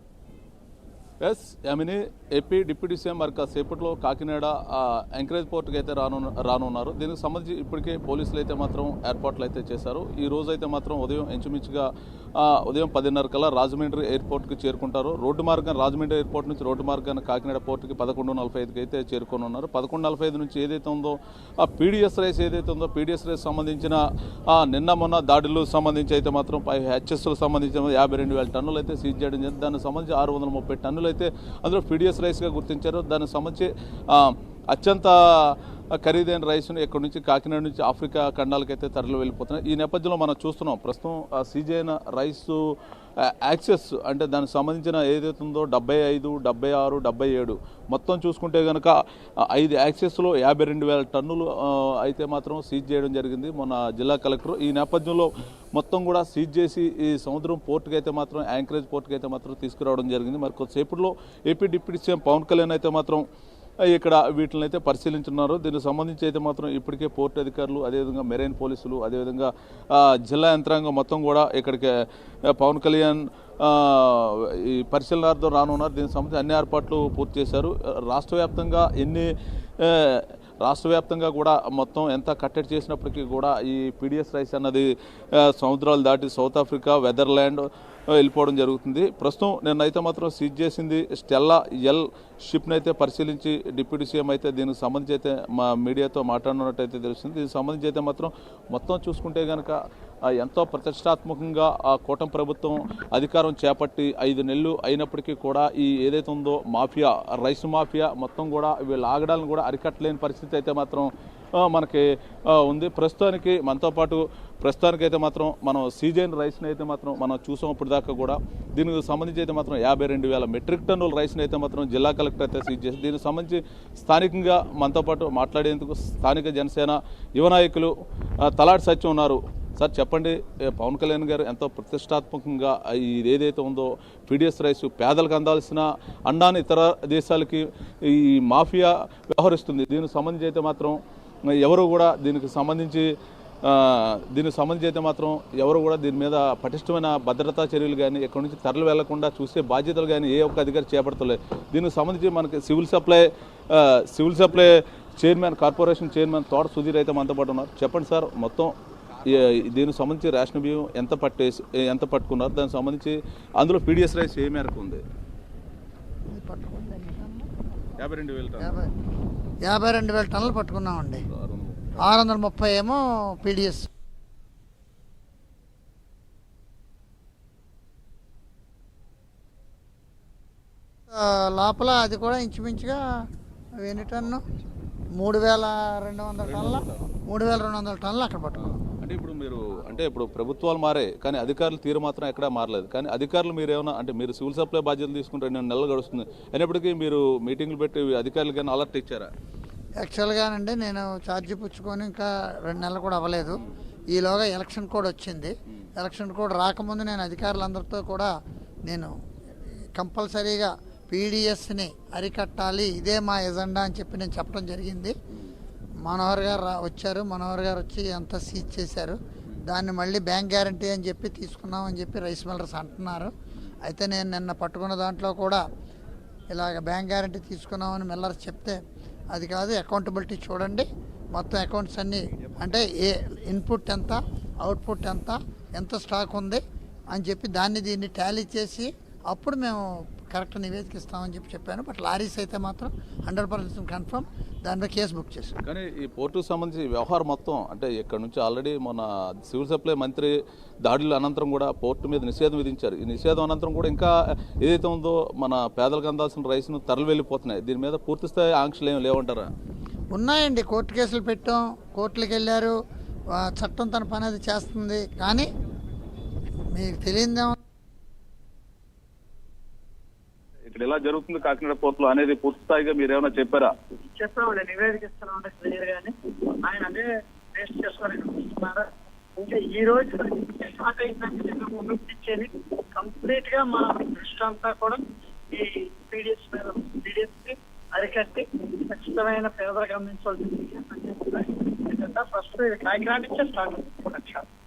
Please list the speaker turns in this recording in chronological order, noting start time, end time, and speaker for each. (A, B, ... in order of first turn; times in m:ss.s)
0:01.2-0:42.6 A
0:43.2-0:48.9 A
0:49.4-1:03.2 A
1:03.8-1:11.9 A
1:12.5-1:39.8 A
1:40.3-2:07.9 A
2:08.4-2:21.0 A
2:21.5-2:23.1 A
2:23.6-2:38.7 A
2:39.2-2:45.0 A
2:46.3-2:47.5 B
2:48.0-2:48.8 A
2:48.6-2:48.9 B
2:49.6-2:51.2 B
2:51.3-2:52.1 A
2:52.0-2:53.9 B
3:01.1-3:03.0 B
3:03.8-3:04.4 B
3:05.2-3:08.6 B
3:06.4-3:07.1 A
3:08.6-3:19.3 A
3:20.0-3:23.6 B
3:24.1-3:28.3 B
3:30.0-3:35.1 B
3:36.0-3:43.3 B
3:43.8-3:45.6 B
3:46.5-3:48.8 B
3:49.3-3:56.6 B
3:57.1-4:05.5 B
4:05.6-4:10.3 A
4:10.8-4:19.5 A
4:20.1-4:22.7 B
4:23.4-4:25.5 B
4:26.7-4:27.6 B
4:30.7-4:33.7 A
4:34.1-4:54.4 C